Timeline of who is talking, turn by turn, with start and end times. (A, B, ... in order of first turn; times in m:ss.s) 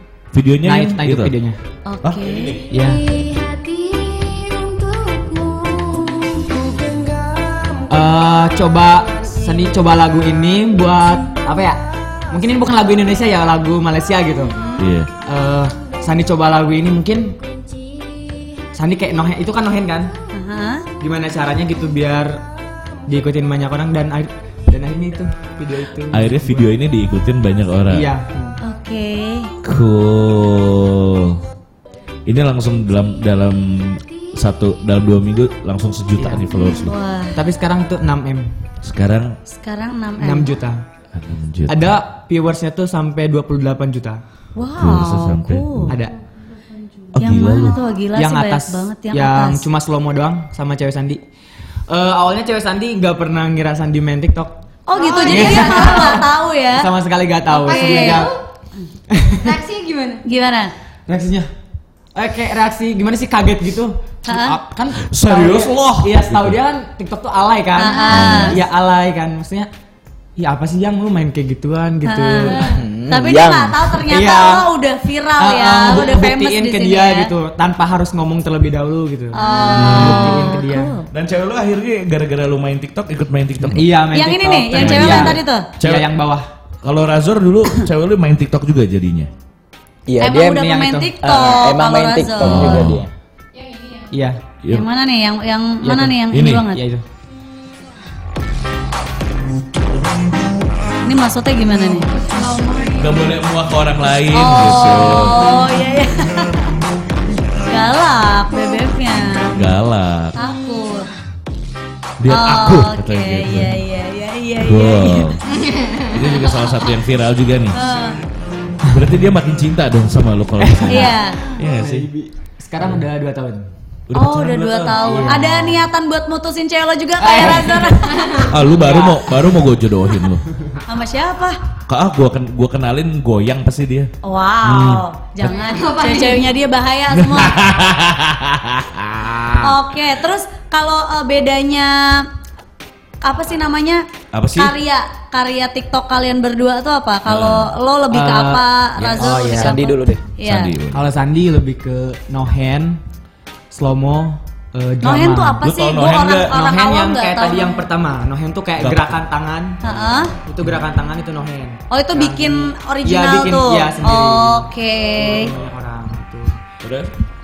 0:00.3-0:01.4 A
0:00.6-0:01.6 B
0:01.9-0:02.6 C
0:02.0-0:02.6 A
0:02.6-0:07.9 D
0:02.7-0:03.0 B
0:07.9-0:14.6 B
0:14.8-0:15.1 A
0:15.2-0:17.4 B
0:17.4-0:18.7 D
0:18.7-0:20.1 B
0:20.3-0:20.9 C
0:21.0-0:22.4 B
0:23.1-0:26.7 B
0:26.1-0:28.1 A
0:27.9-0:28.6 B
0:28.6-0:29.5 C
0:29.6-0:31.4 A
0:32.3-0:37.0 A
0:36.2-0:36.5 B
0:36.6-0:36.9 E
0:36.8-0:37.4 C
0:37.4-0:38.5 B
0:38.8-0:39.4 A
0:39.5-0:40.5 C
0:40.2-0:40.9 B
0:41.1-0:41.9 A
0:41.7-0:44.2 B
0:44.6-0:46.0 C
0:44.8-0:46.0 A
0:45.9-0:46.2 B
0:47.1-0:47.8 A
0:47.2-0:49.7 C
0:48.1-0:51.2 B
0:51.9-0:54.6 B
0:54.9-0:56.9 C
0:54.9-0:56.2 E
0:55.2-0:58.4 B
0:57.5-0:58.3 C
0:57.7-0:58.4 E
0:59.1-0:59.6 B
0:59.4-1:00.2 E
1:00.2-1:00.7 C
1:01.1-1:01.5 B
1:02.2-1:09.7 B
1:04.3-1:04.6 C
1:05.0-1:06.6 A
1:07.8-1:08.6 C
1:07.8-1:08.6 E
1:08.1-1:08.5 A
1:10.4-1:12.8 B
1:12.0-1:12.6 C
1:12.5-1:12.8 E
1:12.6-1:14.0 F
1:13.1-1:17.3 C
1:14.1-1:14.7 B
1:15.4-1:21.0 B
1:19.3-1:21.1 C
1:19.4-1:20.0 E
1:19.9-1:20.5 A
1:21.1-1:24.1 A
1:23.7-1:26.5 B
1:24.1-1:25.7 C
1:24.8-1:26.2 A
1:26.8-1:29.3 A
1:30.1-1:30.7 F
1:30.2-1:32.9 C
1:30.5-1:31.1 B
1:31.2-1:33.1 F
1:32.4-1:33.0 A
1:33.5-1:34.2 E
1:34.1-1:34.4 B
1:34.7-1:36.8 C
1:35.8-1:37.0 B
1:36.3-1:36.7 A
1:41.0-1:42.1 C
1:42.1-1:43.4 E
1:43.0-1:45.6 A
1:44.3-1:46.7 C
1:47.6-1:49.6 C
1:49.6-1:50.4 A
1:50.4-1:51.1 C
1:52.2-1:53.8 A
1:52.3-1:55.4 C
1:54.6-1:57.8 A
1:55.5-1:56.1 E
1:57.7-1:58.2 C
1:58.8-2:02.1 A
2:00.6-2:03.7 B
2:00.9-2:01.4 C
2:04.1-2:05.4 A
2:04.1-2:08.4 C
2:05.0-2:05.9 B
2:07.2-2:09.2 B
2:08.1-2:08.5 E
2:08.5-2:10.5 A
2:10.6-2:10.8 B
2:10.9-2:11.6 C
2:11.9-2:14.1 A
2:14.2-2:17.6 C
2:14.6-2:15.0 A
2:15.4-2:16.5 E
2:17.1-2:19.8 A
2:19.6-2:22.2 C
2:23.2-2:24.0 C
2:24.3-2:24.7 A
2:24.6-2:30.7 C
2:27.3-2:27.7 A
2:28.1-2:28.6 B
2:29.0-2:29.4 A
2:29.2-2:30.2 F
2:29.2-2:29.7 B
2:30.4-2:31.0 A
2:30.9-2:33.0 B
2:33.7-2:35.6 B
2:35.0-2:37.8 C
2:35.6-2:36.6 A
2:36.5-2:39.8 B
2:38.8-2:39.2 A
2:39.8-2:40.3 C
2:39.8-2:40.7 A
2:40.5-2:46.6 B
2:41.9-2:45.5 C
2:46.8-2:47.1 A